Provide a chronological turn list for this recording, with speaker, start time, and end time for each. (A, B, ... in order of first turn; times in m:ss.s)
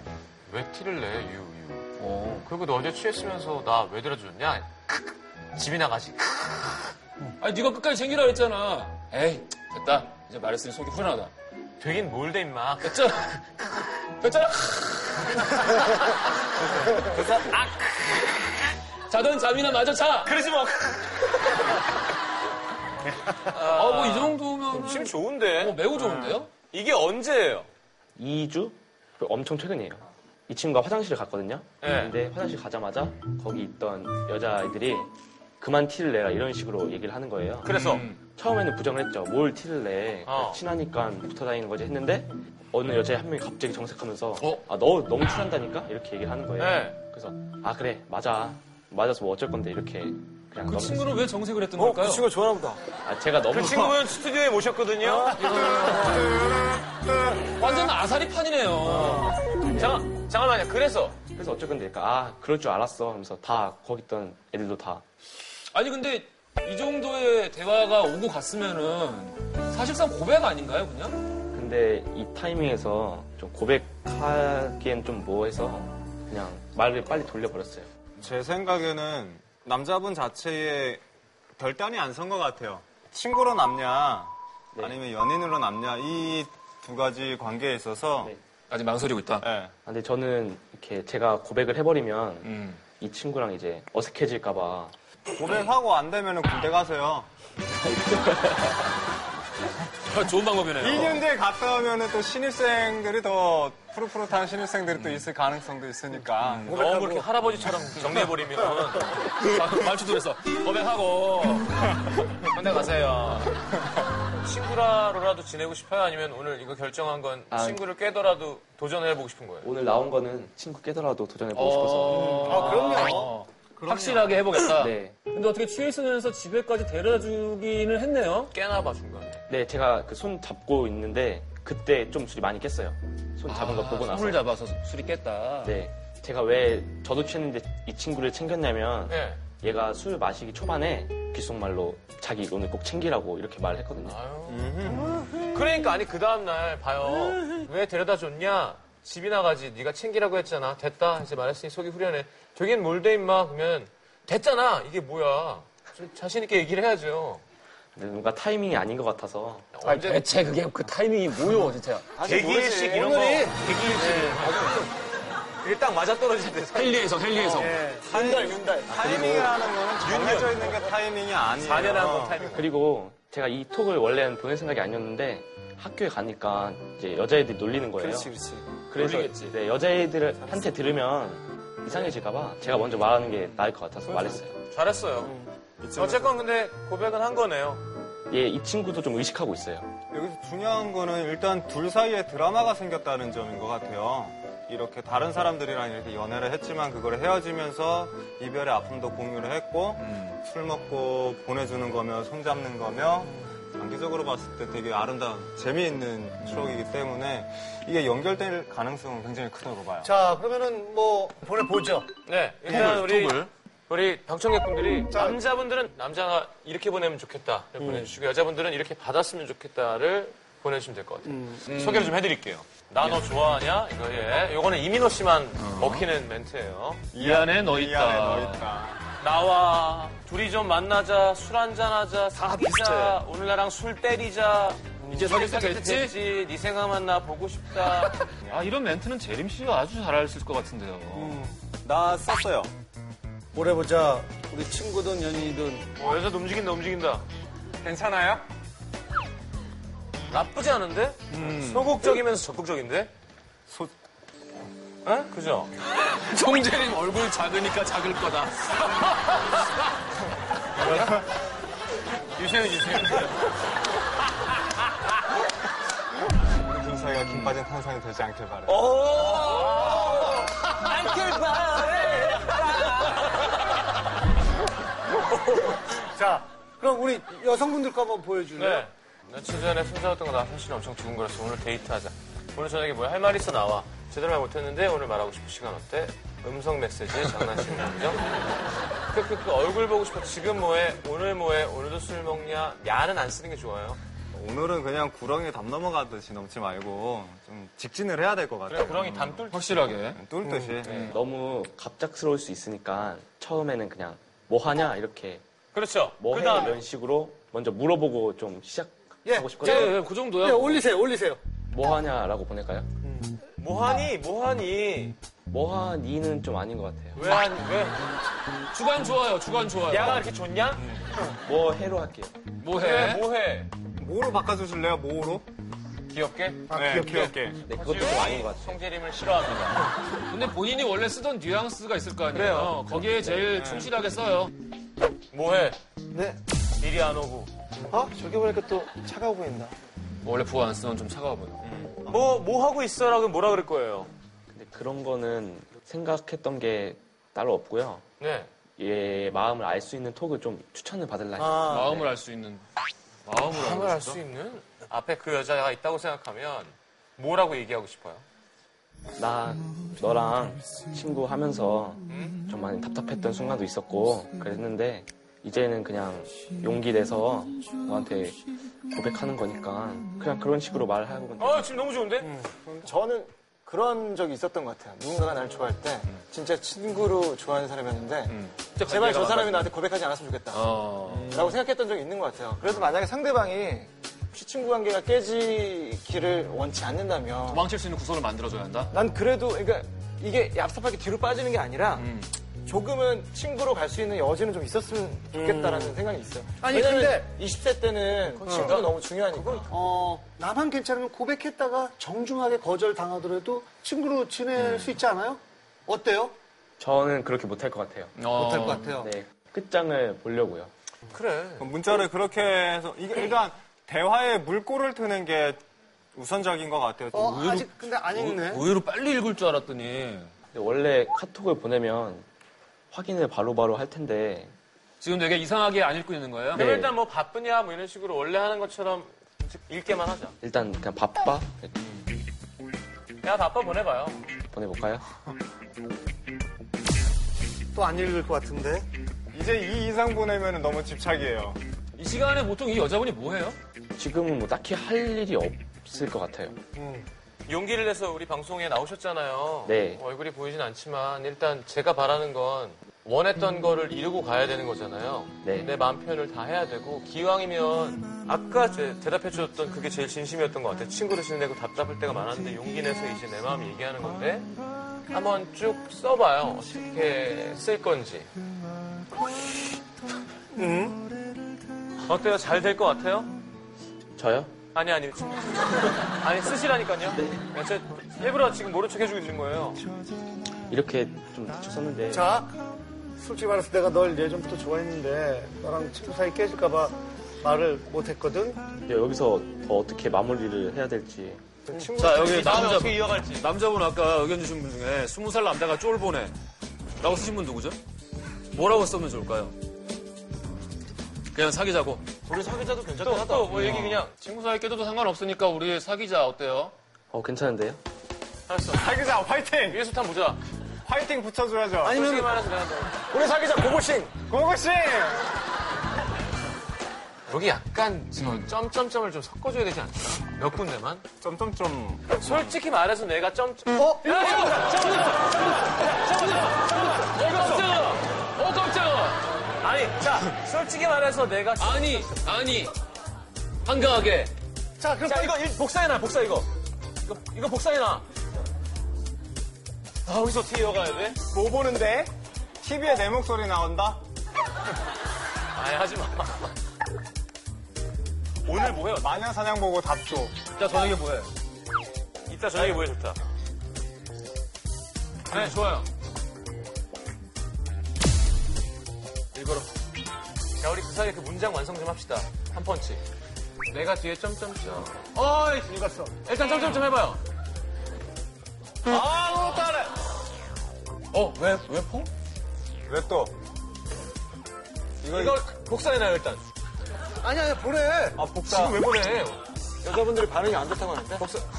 0:00.5-0:01.9 A
0:02.0-0:02.5 B
0:02.4-0:04.7 A
0:05.5-0:06.5 A
0:07.4-0:11.3 B
0:11.8-0:13.0 A
0:12.8-0:15.7 B
0:19.1-0:20.4 B
0:20.2-0:21.2 A
0:23.5-0:25.8 A
0:23.5-0:26.5 B
0:26.0-0:26.4 C
0:26.7-0:27.7 A
0:28.2-0:51.1 D
0:31.8-0:32.2 A
0:37.6-0:38.0 A
0:37.7-0:38.2 B
0:40.3-0:40.6 A
0:46.6-0:47.0 A
0:50.6-0:52.3 B
0:51.8-0:52.8 E
0:53.0-0:54.1 D
0:53.5-0:55.8 A
0:55.3-0:56.3 B
0:55.5-0:56.2 F
0:56.1-0:56.6 C
0:57.5-0:59.4 B
0:59.7-1:01.2 A
0:59.7-1:00.0 D
1:01.3-1:05.0 D
1:05.7-1:11.2 B
1:11.5-1:17.9 D
1:18.2-1:21.0 C
1:21.6-1:28.3 C
1:28.7-1:29.5 B
1:29.4-1:29.7 C
1:29.8-1:34.9 D
1:32.4-1:32.8 B
1:35.3-1:37.3 C
1:37.8-1:38.9 D
1:40.0-1:41.2 B
1:40.8-1:46.8 C
1:46.7-1:49.2 A
1:49.2-1:51.9 B
1:52.5-1:53.5 A
1:54.4-1:59.7 A
1:57.5-1:57.8 D
1:59.6-2:02.8 D
2:01.5-2:08.5 B
2:02.1-2:04.5 F
2:04.7-2:05.2 D
2:08.5-2:09.4 A
2:09.5-2:14.4 D
2:13.5-2:15.8 B
2:15.6-2:24.2 D
2:19.1-2:19.4 A
2:24.0-2:25.0 A
2:24.5-2:25.2 C
2:25.5-2:37.4 A
2:38.0-2:39.7 D
2:39.7-2:40.2 A
2:39.8-2:42.1 B
2:42.2-2:42.9 E
2:42.2-2:44.9 A
2:42.9-2:44.5 F
2:45.6-2:47.6 A
2:46.7-2:47.8 B
2:47.5-2:48.1 F
2:48.0-2:49.5 E
2:48.1-2:52.5 C
2:50.0-2:50.8 A
2:51.6-2:52.7 A
2:52.4-2:58.3 D
2:58.2-2:58.6 E
2:58.9-3:04.5 D
2:58.9-2:59.6 B
3:04.7-3:05.3 A
3:05.8-3:06.3 C
3:05.9-3:07.8 A
3:08.3-3:09.9 D
3:10.1-3:30.1 C
3:30.0-3:32.1 F
3:32.2-3:47.0 A
3:32.7-3:33.4 B
3:35.1-3:35.4 F
3:41.3-3:41.6 F
3:41.7-3:42.2 B
3:45.6-3:46.1 B
3:47.1-3:49.0 C
3:47.2-3:48.7 B
3:49.2-3:58.2 A
3:55.1-3:56.2 B
3:58.5-4:01.4 B
4:01.1-4:01.6 F
4:01.8-4:02.7 C
4:03.5-4:05.9 F
4:06.0-4:07.2 A
4:07.8-4:08.4 C
4:10.3-4:13.1 A
4:11.3-4:11.9 B
4:15.0-4:15.7 A
4:16.0-4:19.5 B
4:20.8-4:21.2 A
4:22.4-4:23.4 A
4:26.6-4:29.0 C
4:28.7-4:30.3 E
4:29.2-4:30.4 A
4:29.6-4:31.0 F
4:30.9-4:31.2 A
4:31.4-4:32.3 E
4:31.9-4:33.2 A
4:35.9-4:38.9 F
4:38.6-4:48.2 A
4:49.1-4:54.0 A
4:54.3-4:59.5 C
4:58.7-4:59.7 A
4:59.5-5:00.2 B
5:00.1-5:01.1 C
5:00.4-5:00.8 F
5:00.8-5:01.1 A
5:00.8-5:01.1 B
5:00.9-5:05.4 D
5:05.7-5:06.8 A
5:06.2-5:10.0 D
5:09.2-5:11.4 F
5:09.6-5:10.8 B
5:11.7-5:12.9 D
5:13.0-5:13.4 F
5:13.6-5:15.2 A
5:15.5-5:17.2 D
5:17.1-5:18.1 A
5:18.7-5:20.3 B
5:19.9-5:20.9 A
5:21.3-5:22.3 D
5:22.6-5:23.3 B
5:22.7-5:23.7 A
5:24.0-5:25.4 C
5:26.1-5:26.7 A
5:26.7-5:27.4 F
5:26.7-5:27.6 C
5:27.6-5:28.8 D
5:27.7-5:29.9 A
5:30.3-5:34.5 B
5:32.3-5:32.8 A
5:33.5-5:33.9 C
5:35.3-5:35.8 A
5:36.8-5:37.5 A
5:37.9-5:39.7 E
5:40.2-5:41.6 B
5:41.6-5:42.2 C
5:42.1-5:44.1 A
5:44.5-5:48.0 D
5:48.2-5:48.5 A
5:48.8-5:52.1 D
5:51.4-5:51.8 F
5:51.7-5:52.6 B
5:53.2-5:54.2 B
5:53.5-5:58.2 A
5:59.2-6:08.4 D
6:02.1-6:02.4 A
6:08.9-6:11.7 D
6:11.4-6:12.4 A
6:12.6-6:12.9 C
6:12.8-6:18.3 E
6:18.3-6:19.7 B
6:18.9-6:20.6 E
6:20.5-6:21.6 B
6:21.1-6:21.4 C
6:21.3-6:27.6 E
6:27.5-6:28.9 B
6:28.9-6:32.1 E
6:32.0-6:32.3 B
6:32.7-6:39.7 E
6:35.4-6:36.0 F
6:36.6-6:37.3 F
6:38.4-6:38.8 F
6:38.4-6:39.6 A
6:39.7-6:46.3 F
6:46.8-6:48.1 D
6:48.2-6:49.0 B
6:48.3-6:49.1 F
6:48.9-6:50.7 D
6:51.1-6:51.7 A
6:51.6-6:55.6 C
6:56.1-6:57.7 C
6:57.1-6:58.6 F
6:58.1-7:00.3 B
7:00.5-7:02.2 D
7:02.9-7:04.5 D
7:05.0-7:06.7 B
7:06.5-7:07.0 D
7:06.5-7:10.3 A
7:10.4-7:11.7 D
7:13.2-7:14.2 A
7:14.5-7:15.0 D
7:17.7-7:18.9 F
7:19.3-7:21.6 C
7:22.0-7:23.6 B
7:24.0-7:26.6 D
7:26.8-7:27.1 F
7:27.4-7:44.5 A
7:29.6-7:30.0 D
7:35.4-7:35.7 D
7:45.1-7:48.3 A
7:50.6-7:51.0 F
7:52.0-7:53.3 A
7:54.2-7:54.6 D
7:54.7-7:59.8 A
7:57.1-7:57.4 D
8:00.7-8:02.3 D
8:02.1-8:02.6 F
8:03.2-8:08.6 F
8:08.8-8:11.4 D
8:11.7-8:13.5 A
8:12.0-8:16.3 B
8:17.0-8:17.8 B
8:18.5-8:19.5 B
8:21.3-8:22.0 B
8:22.3-8:23.5 E
8:23.0-8:24.1 A
8:23.5-8:26.7 B
8:27.1-8:27.8 D
8:28.5-8:28.9 A
8:28.7-8:29.8 C
8:29.7-8:30.4 A
8:30.8-8:32.1 C
8:31.8-8:33.0 A
8:33.1-8:34.1 E
8:34.3-8:35.2 C
8:37.3-8:41.0 A
8:41.2-8:42.5 C
8:42.2-8:48.0 A
8:43.7-8:44.7 F
8:46.2-8:49.3 B
8:49.6-8:52.1 A
8:51.6-8:52.7 B
8:53.6-8:54.3 B
8:54.8-8:55.4 F
8:55.0-8:56.5 A
8:57.0-8:58.0 A
9:00.0-9:01.2 A
9:01.4-9:02.1 C
9:02.6-9:04.0 C
9:05.5-9:06.5 A
9:08.4-9:09.1 A
9:08.9-9:10.4 C
9:10.6-9:11.3 B
9:12.3-9:13.2 A
9:15.3-9:15.8 A
9:15.3-9:15.8 B
9:19.3-9:19.7 B
9:20.6-9:23.0 A
9:23.7-9:25.1 A
9:25.1-9:26.1 F
9:26.2-9:27.2 A
9:28.9-9:29.9 A
9:31.1-9:32.1 B
9:32.9-9:33.3 C
9:35.0-9:35.4 C
9:35.1-9:36.4 A
9:37.2-9:38.2 F
9:38.1-9:38.9 C
9:38.4-9:39.4 A
9:39.8-9:41.2 E